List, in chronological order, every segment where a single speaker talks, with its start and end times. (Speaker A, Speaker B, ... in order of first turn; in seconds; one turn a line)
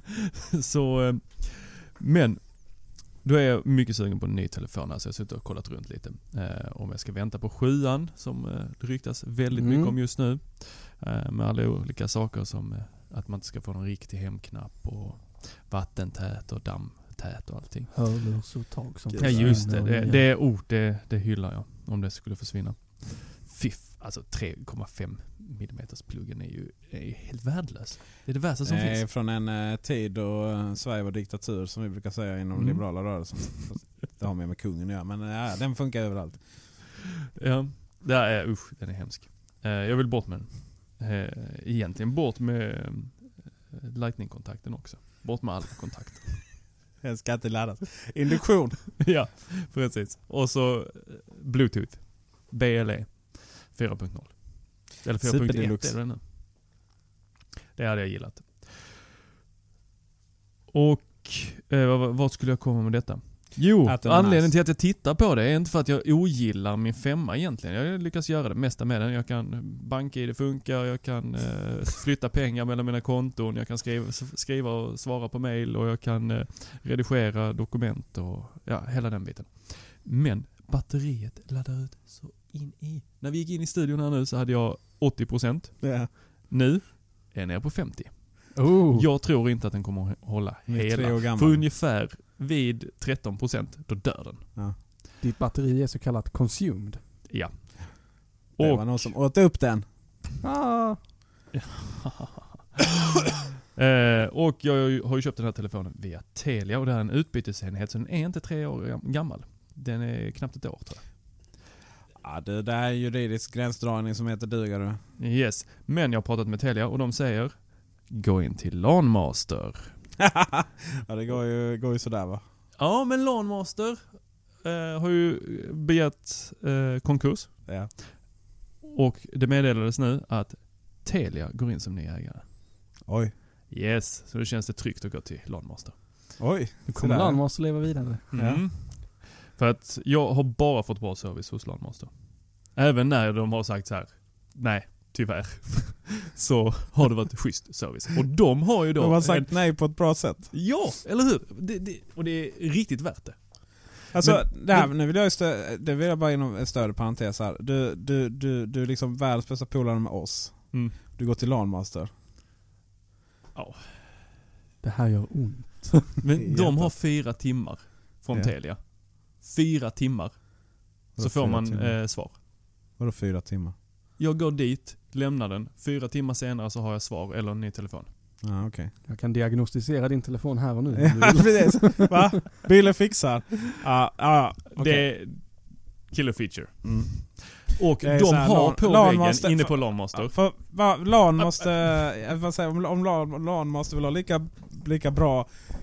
Speaker A: 0.6-18.3
Speaker B: 9.5-10.0
Speaker B: 17.9-20.2
Speaker C: 19.1-19.7
Speaker A: 19.2-29.1
Speaker C: 28.6-36.7
Speaker A: 32.5-33.7
Speaker A: 37.4-46.5
Speaker C: 47.0-48.9
Speaker A: 49.0-56.2
Speaker C: 55.2-56.0
Speaker A: 57.8-58.9
Speaker A: 60.7-94.5
Speaker C: 63.9-64.5
Speaker C: 85.8-86.1
Speaker B: 88.6-89.1
Speaker C: 90.7-91.7
Speaker B: 95.2-97.0
Speaker A: 97.3-99.2
Speaker C: 98.6-99.8
Speaker B: 100.4-101.0
Speaker A: 101.5-103.2
Speaker A: 103.8-111.0
Speaker C: 112.2-115.0
Speaker A: 115.2-120.0
Speaker C: 120.2-122.4
Speaker A: 122.8-124.0
Speaker A: 124.6-127.5
Speaker C: 127.7-127.9
Speaker A: 128.8-132.4
Speaker C: 133.1-133.3
Speaker A: 133.7-136.1
Speaker C: 136.4-137.4
Speaker B: 136.9-138.2
Speaker A: 138.3-142.1
Speaker C: 138.3-138.6
Speaker A: 142.7-154.9
Speaker C: 149.0-150.5
Speaker C: 154.1-162.1
Speaker A: 160.7-161.0
Speaker A: 163.6-164.0
Speaker B: 164.8-166.1
Speaker A: 166.2-172.4
Speaker C: 166.4-166.9
Speaker C: 171.2-172.2
Speaker C: 173.0-173.8
Speaker A: 174.2-178.1
Speaker C: 178.4-178.9
Speaker B: 179.1-182.1
Speaker C: 181.0-185.1
Speaker A: 184.8-190.4
Speaker C: 186.8-195.5
Speaker A: 191.4-191.7